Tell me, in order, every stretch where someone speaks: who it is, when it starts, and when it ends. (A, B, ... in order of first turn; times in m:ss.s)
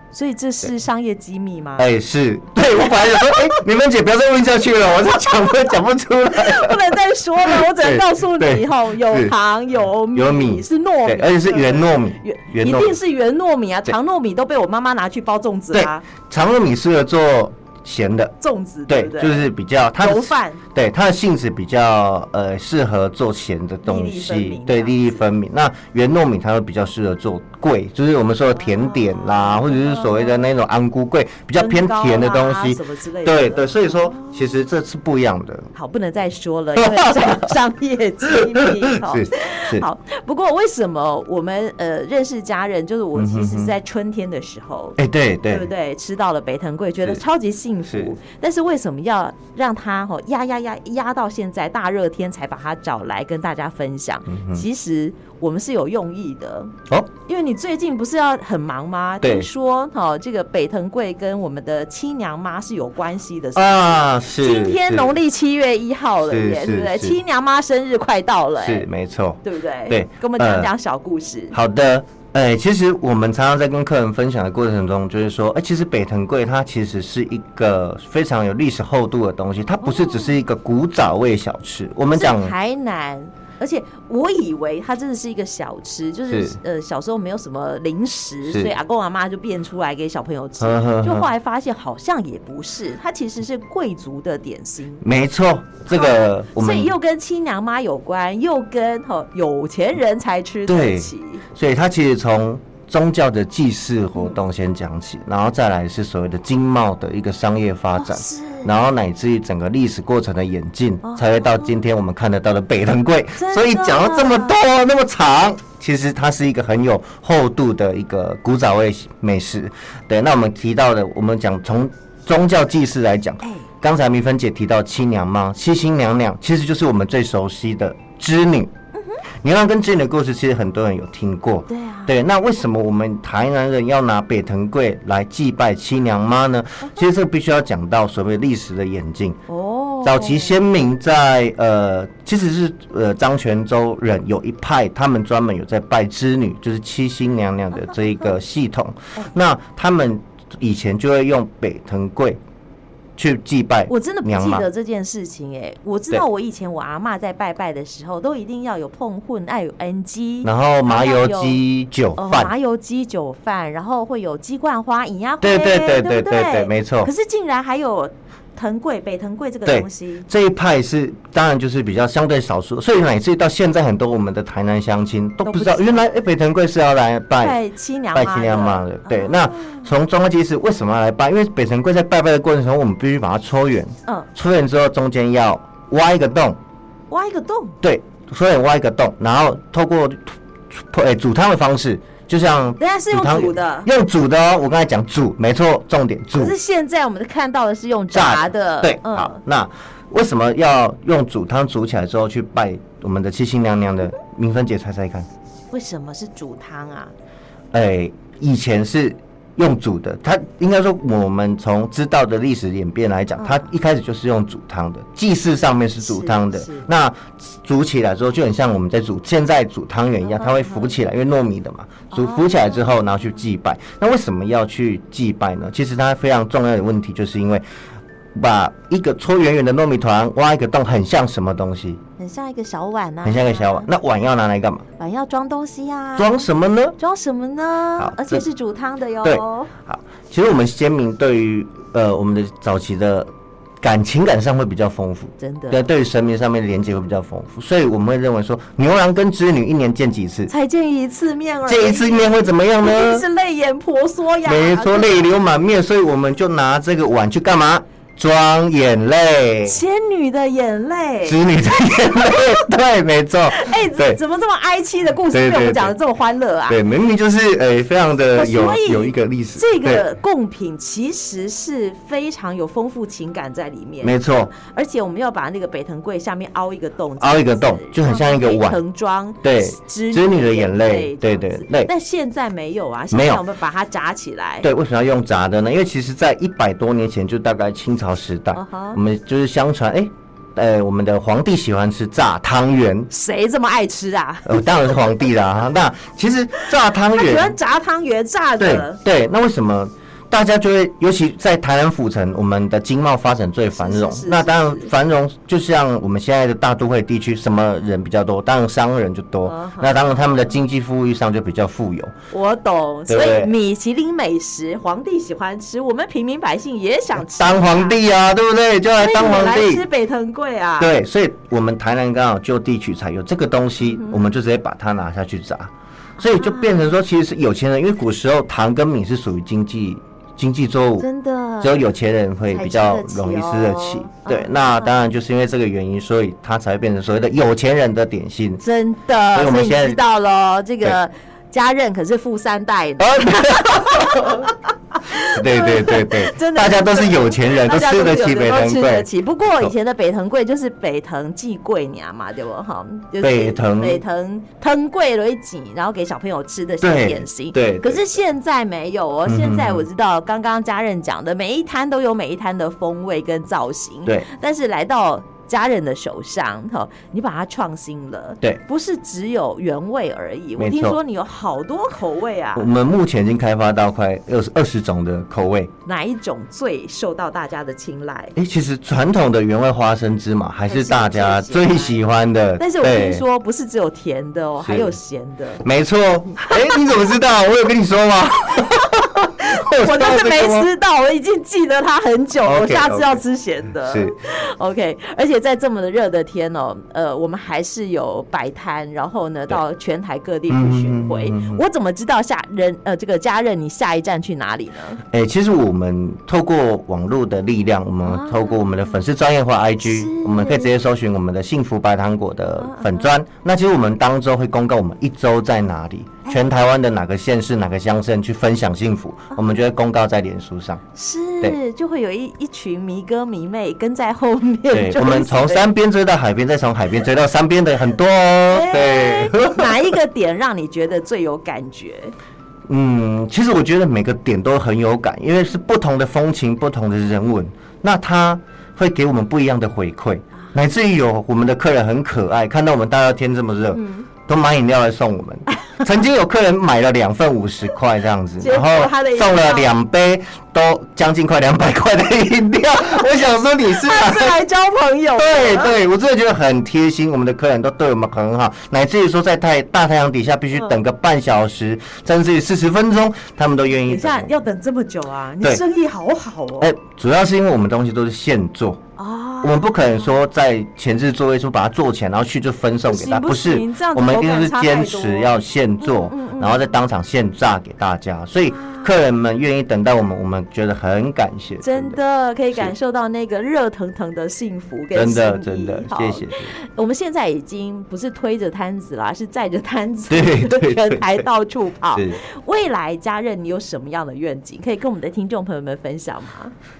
0:00.1-0:01.9 A
0:01.8-0:09.4 B
0:06.3-0:16.1 A
0:10.1-0:13.0 B
0:15.7-0:18.3 B
0:18.4-0:20.6 A
0:18.9-0:35.7 B
0:23.8-0:25.2 A
0:28.6-0:30.5 A
0:31.6-0:34.6 A
0:35.7-0:56.7 A
0:36.8-0:37.6 B
0:38.3-0:39.9 B
0:43.2-0:43.8 B
0:45.0-0:45.7 B
0:47.9-0:48.2 B
0:54.3-0:54.6 B
0:57.3-1:08.9 A
0:59.2-0:59.5 B
1:03.6-1:05.2 B
1:06.3-1:07.2 B
1:08.6-1:10.7 B
1:09.4-1:11.6 A
1:11.5-1:22.6 B
1:19.8-1:20.3 A
1:22.1-1:35.0 A
1:26.3-1:26.6 B
1:28.5-1:28.7 B
1:30.6-1:31.3 B
1:35.0-1:37.0 B
1:35.9-1:41.4 A
1:40.7-2:08.7 B
1:48.0-1:48.7 A
1:51.0-1:51.7 A
1:53.4-1:54.6 A
2:09.0-2:09.2 A
2:09.4-2:19.4 B
2:11.7-2:12.1 A
2:19.5-2:20.6 A
2:20.0-2:32.4 B
2:33.2-2:34.7 B
2:33.9-2:41.6 A
2:40.4-2:42.5 B
2:42.2-2:50.3 A
2:45.4-2:47.1 B
2:49.7-2:57.6 B
2:55.4-2:56.1 A
2:57.4-2:59.9 A
2:58.1-3:06.6 B
3:07.1-3:07.8 A
3:07.8-3:16.6 B
3:12.8-3:13.9 A
3:16.4-3:19.4 A
3:18.1-3:25.3 B
3:25.7-3:27.1 A
3:27.7-3:47.6 B
3:33.4-3:33.7 A
3:36.0-3:36.9 A
3:40.2-3:41.0 A
3:42.1-3:43.0 A
3:48.4-3:52.0 B
3:52.2-3:53.9 A
3:53.2-3:54.8 B
3:55.0-3:56.4 A
3:56.2-3:57.0 B
3:57.0-3:59.7 A
3:58.0-3:58.4 B
3:59.2-4:10.5 B
4:05.4-4:05.8 A
4:10.5-4:15.2 A
4:11.6-4:13.3 B
4:14.4-4:19.8 B
4:19.7-4:21.5 A
4:21.2-4:24.2 B
4:22.2-4:22.6 A
4:23.5-4:26.8 A
4:25.3-4:26.0 B
4:26.7-4:30.1 B
4:28.4-4:44.7 A
4:34.0-4:34.5 B
4:37.2-4:38.8 B
4:39.4-4:41.9 B
4:43.1-4:43.4 B
4:44.6-4:53.1 B
4:48.5-4:49.0 A
4:53.1-4:55.3 A
4:54.5-4:57.6 B
4:57.1-4:59.0 A
4:58.6-5:12.1 B
5:03.8-5:04.9 A
5:09.4-5:10.4 A
5:12.3-5:18.0 A
5:13.1-5:13.5 B
5:17.2-5:19.9 B
5:19.0-5:20.9 A
5:20.8-5:31.1 B
5:23.8-5:24.2 A
5:26.2-5:27.0 A
5:31.0-5:31.9 A
5:31.6-5:38.6 B
5:32.5-5:34.9 A
5:38.6-6:12.7 A
5:39.3-5:40.0 B
5:43.0-5:44.5 B
5:45.3-5:49.7 B
5:53.2-5:54.0 B
5:56.8-5:58.0 B
5:59.3-5:59.9 B
6:10.6-6:11.0 B
6:12.6-6:15.7 B
6:15.8-6:18.4 A
6:18.4-6:23.2 B
6:20.7-6:22.0 A
6:22.6-6:25.6 A
6:24.6-6:25.0 B
6:25.6-6:30.7 B
6:29.4-6:45.0 A
6:32.4-6:33.2 B
6:33.8-6:34.1 B
6:40.5-6:41.6 B
6:45.1-7:00.8 B
6:48.0-6:49.1 A
6:49.8-6:50.7 A
6:52.6-6:53.2 A
7:01.0-7:05.7 A
7:04.7-7:09.9 B
7:08.5-7:12.2 A
7:12.7-7:34.4 B
7:23.7-7:24.1 A
7:28.4-7:29.7 A
7:33.8-7:35.8 A
7:35.2-7:44.4 B
7:43.8-7:46.7 A
7:46.6-7:48.8 B
7:49.0-7:50.1 A
7:49.4-8:02.0 B
7:52.9-7:56.7 A
7:58.5-7:58.9 A
8:01.6-8:16.5 A
8:05.0-8:06.6 B
8:10.1-8:11.2 B
8:11.9-8:12.2 B